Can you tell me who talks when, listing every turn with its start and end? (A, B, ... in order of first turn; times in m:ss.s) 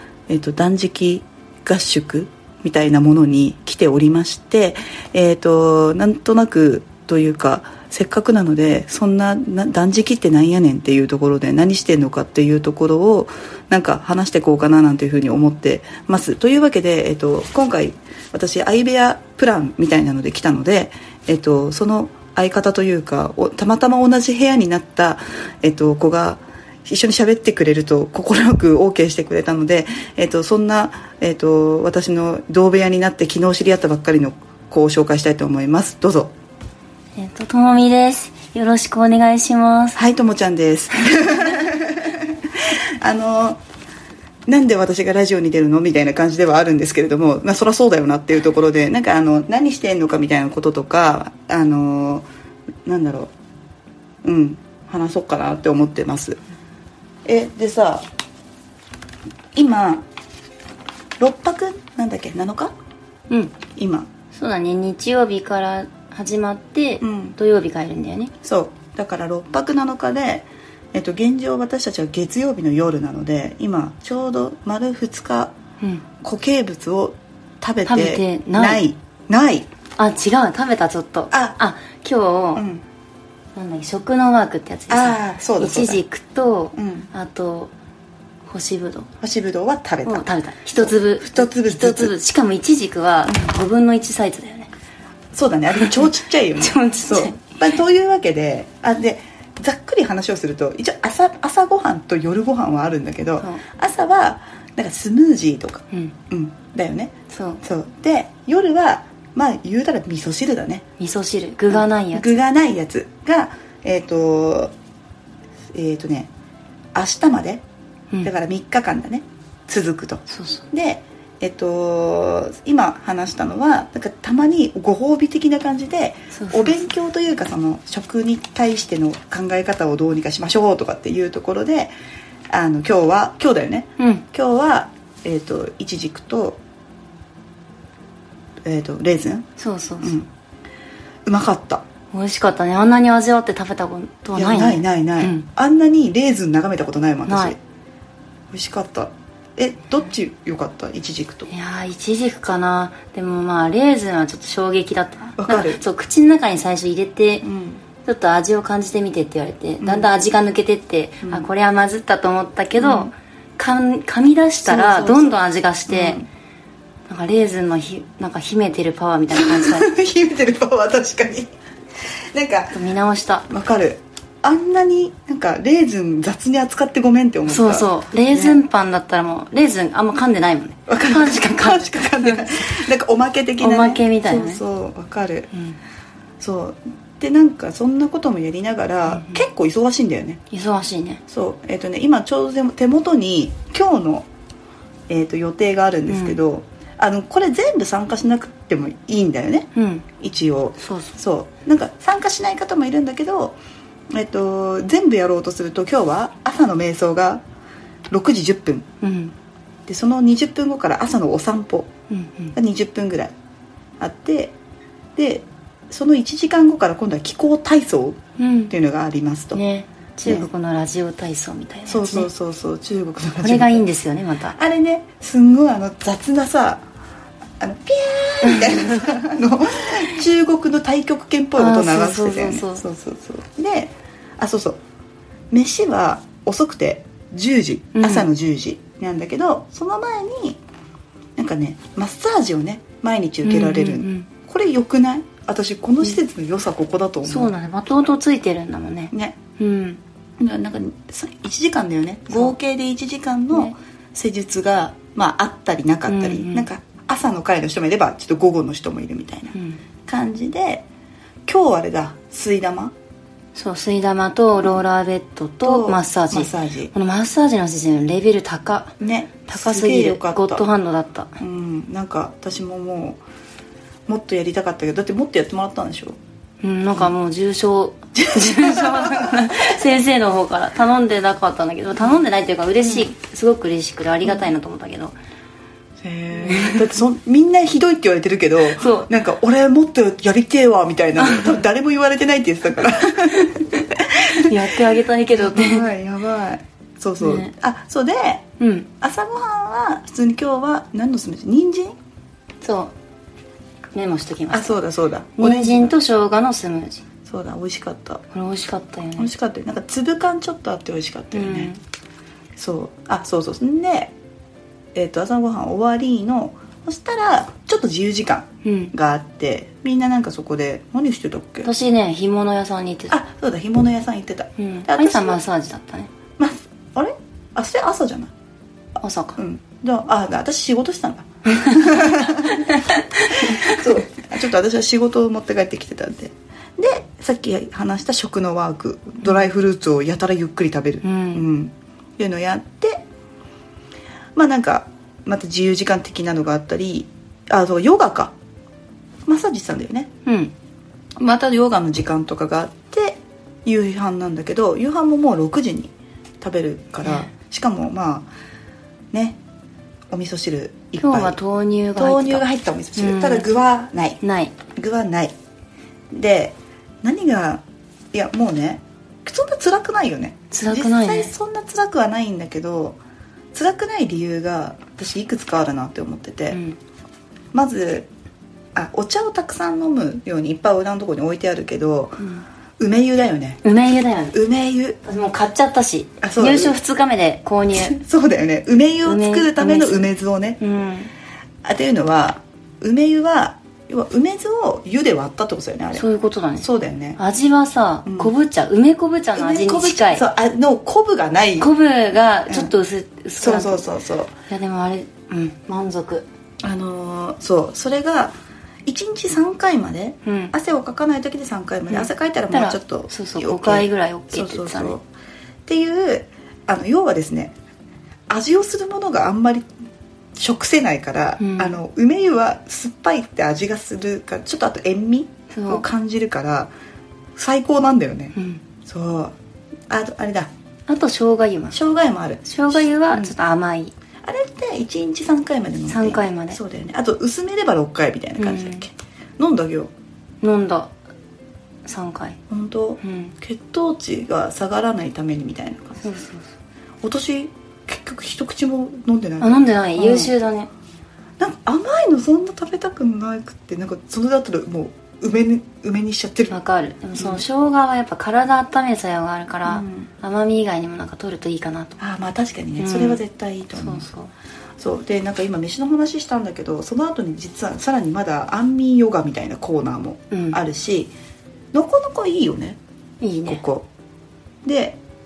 0:00.3-0:36.3 A
0:37.2-0:40.0 B
0:39.9-0:43.6 A
0:44.5-0:52.3 A
0:52.8-0:53.3 A
0:54.2-0:56.4 A
0:57.2-0:58.1 A
0:59.5-1:00.0 A
1:01.2-1:02.7 A
1:03.3-1:03.6 B
1:03.7-1:04.1 A
1:04.3-1:08.3 B
1:07.0-1:07.4 A
1:08.4-1:15.5 A
1:16.2-1:19.7 A
1:17.8-1:18.8 B
1:20.0-1:22.6 B
1:21.3-1:21.6 A
1:22.5-1:22.8 A
1:23.5-1:27.7 B
1:24.9-1:26.0 A
1:26.7-1:27.1 A
1:28.4-1:29.1 B
1:29.2-1:32.1 A
1:30.0-1:34.7 B
1:35.3-1:50.8 A
1:35.7-1:37.6 B
1:47.3-1:47.6 B
1:51.0-1:52.4 B
1:51.7-1:54.7 A
1:55.7-1:56.3 A
1:56.9-1:57.6 A
1:58.2-2:11.9 A
2:00.3-2:00.7 B
2:06.3-2:06.8 B
2:12.5-2:16.6 A
2:14.0-2:14.2 B
2:18.6-2:19.5 A
2:19.6-2:20.1 B
2:20.0-2:20.3 A
2:21.2-2:21.8 A
2:22.1-2:25.4 B
2:24.3-2:27.6 A
2:27.2-2:27.5 B
2:28.5-2:31.5 A
2:31.5-2:37.4 B
2:35.4-2:35.8 A
2:37.4-2:37.8 A
2:38.0-2:46.2 B
2:39.8-2:40.1 A
2:41.2-2:41.5 A
2:42.8-2:43.1 A
2:44.6-2:46.3 A
2:47.1-2:49.9 B
2:49.3-2:51.5 A
2:52.3-2:52.8 A
2:52.7-2:53.5 B
2:53.4-2:58.6 A
2:57.5-3:02.8 B
3:00.9-3:05.5 A
3:03.6-3:04.6 B
3:06.4-3:10.4 A
3:09.1-3:09.4 B
3:10.5-3:11.2 B
3:11.3-3:14.3 A
3:15.1-3:23.6 A
3:16.1-3:16.4 B
3:19.7-3:20.1 B
3:20.8-3:21.1 B
3:24.1-3:27.4 A
3:28.1-3:28.9 A
3:29.0-3:29.3 B
3:29.9-3:31.9 A
3:32.1-3:32.5 B
3:32.5-3:33.3 A
3:34.0-3:34.5 A
3:35.2-3:39.6 A
3:38.4-3:38.7 B
3:39.5-3:42.3 B
3:41.9-3:43.8 A
3:43.4-3:44.6 B
3:44.6-3:46.8 A
3:47.6-3:54.8 A
3:48.5-3:48.8 B
3:51.6-3:52.8 B
3:55.5-4:00.6 A
3:58.0-3:58.3 B
4:01.4-4:07.5 A
4:03.4-4:04.3 B
4:07.2-4:10.0 B
4:09.1-4:09.4 A
4:10.4-4:20.8 A
4:12.3-4:12.6 B
4:16.1-4:16.7 B
4:19.5-4:19.8 B
4:21.5-4:22.9 A
4:23.5-4:29.0 B
4:25.6-4:26.9 A
4:29.0-4:30.6 A
4:29.5-4:31.4 B
4:31.4-4:33.2 A
4:34.1-4:36.2 A
4:36.6-4:45.2 B
4:38.1-4:39.8 A
4:46.0-4:54.5 A
4:46.4-4:47.0 B
4:48.7-4:49.1 B
4:51.2-4:51.6 B
4:53.3-4:55.9 B
4:55.4-4:58.4 A
4:57.2-4:57.5 B
4:58.6-4:58.9 B
4:59.0-5:01.9 A
5:02.6-5:02.9 B
5:03.9-5:04.8 B
5:04.5-5:05.9 A
5:05.4-5:07.0 B
5:07.2-5:08.2 A
5:08.3-5:09.3 B
5:09.2-5:11.7 A
5:11.3-5:11.8 B
5:12.6-5:14.1 A
5:14.9-5:21.7 A
5:18.6-5:18.9 B
5:21.6-5:23.1 B
5:23.1-5:25.4 A
5:24.6-5:26.1 B
5:26.4-5:28.3 A
5:29.0-5:29.4 B
5:29.4-5:43.0 A
5:31.5-5:34.0 B
5:41.0-5:41.4 B
5:44.3-5:48.3 A
5:49.2-5:50.1 A
5:50.2-5:50.5 B
5:51.2-5:58.3 A
5:57.0-5:57.3 B
5:59.1-5:59.4 A
6:00.1-6:01.4 A
6:01.0-6:02.4 B
6:02.0-6:04.2 A
6:03.0-6:03.5 B
6:04.2-6:04.6 B
6:04.7-6:05.3 A
6:06.1-6:13.0 A
6:10.5-6:11.3 B
6:13.5-6:16.6 A
6:16.5-6:16.8 B
6:17.5-6:18.1 A
6:18.7-6:22.2 A
6:22.2-6:22.4 B
6:22.8-6:23.6 A
6:23.6-6:24.4 B
6:24.3-6:25.0 A
6:25.0-6:28.0 B
6:26.2-6:26.8 A
6:27.8-6:30.6 A
6:29.0-6:31.1 B
6:31.6-6:36.0 A
6:35.9-6:40.2 B
6:36.6-6:37.2 A
6:38.0-6:38.3 A
6:39.4-6:41.7 A
6:41.6-6:43.8 B
6:43.4-6:44.3 A
6:44.5-6:46.2 B
6:46.6-6:55.0 A
6:50.2-6:50.5 B
6:51.9-6:55.0 B
6:55.6-6:57.5 A
6:58.3-6:59.7 A
7:00.4-7:06.7 A
7:01.4-7:01.8 B
7:05.5-7:05.8 B
7:07.4-7:09.3 A
7:08.3-7:08.6 B
7:09.9-7:10.5 A
7:10.9-7:11.8 B
7:11.7-7:13.3 A
7:12.4-7:13.9 B
7:14.2-7:19.9 A
7:15.9-7:16.6 B
7:18.4-7:18.9 B
7:20.4-7:20.9 B
7:21.8-7:22.4 B
7:22.5-7:26.1 A
7:23.0-7:23.3 B
7:26.0-7:26.5 B
7:27.0-7:30.3 A
7:29.4-7:30.7 B
7:31.4-7:36.5 A
7:36.5-7:42.0 B
7:37.1-7:37.4 A
7:39.6-7:40.1 A
7:42.0-7:44.0 A
7:42.8-7:43.2 B
7:43.7-7:44.3 B
7:44.8-7:51.1 A
7:50.3-7:50.6 B
7:51.7-7:52.8 A
7:53.2-7:53.6 B
7:53.4-7:53.8 A
7:54.6-7:55.0 A